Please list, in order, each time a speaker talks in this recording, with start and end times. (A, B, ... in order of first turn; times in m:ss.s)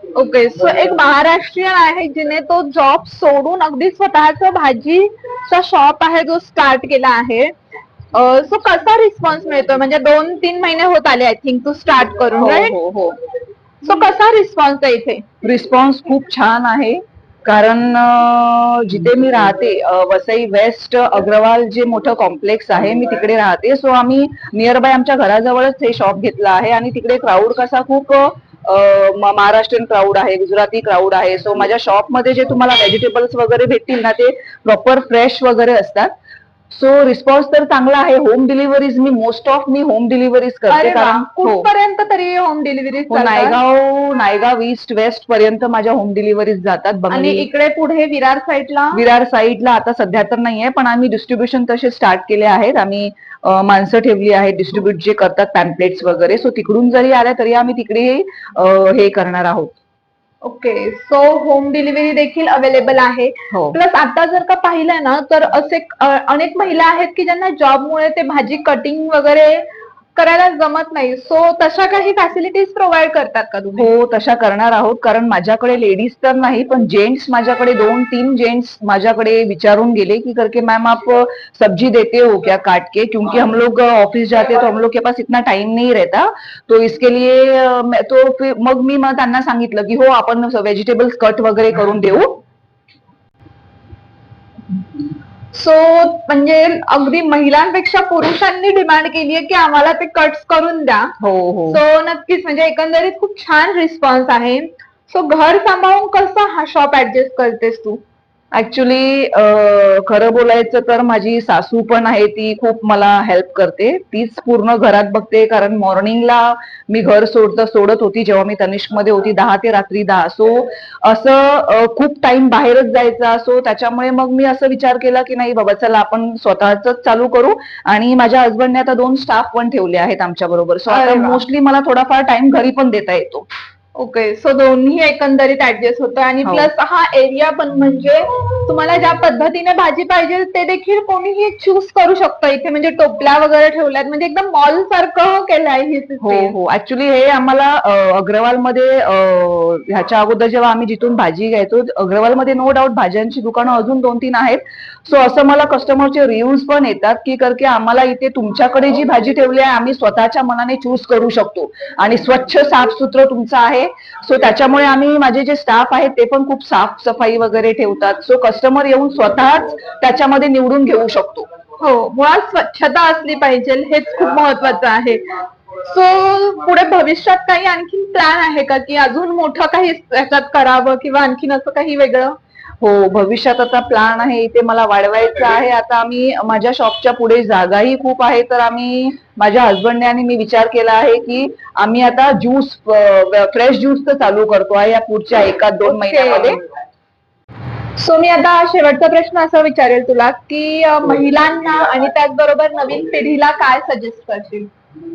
0:00.1-0:07.5 A
0:08.1-0:12.7 A
0:12.4-0:13.2 B
0:13.8-0:15.2 A
0:15.4-0:36.1 B
0:36.7-0:41.7 B
0:40.7-0:43.6 A
0:43.1-0:47.5 B
0:47.1-0:49.0 A
0:48.9-0:59.8 B
1:00.4-1:09.6 A
1:03.5-1:03.8 B
1:10.2-1:13.9 A
1:13.8-1:32.4 B
1:35.5-1:41.1 A
1:41.2-1:41.8 B
1:41.7-1:48.0 A
1:48.5-2:13.4 B
2:10.9-2:11.4 A
2:14.0-2:26.5 A
2:16.4-2:16.7 B
2:26.2-2:51.5 B
2:51.8-3:02.4 A
3:02.8-3:16.6 B
3:15.8-3:16.6 A
3:18.0-3:24.7 A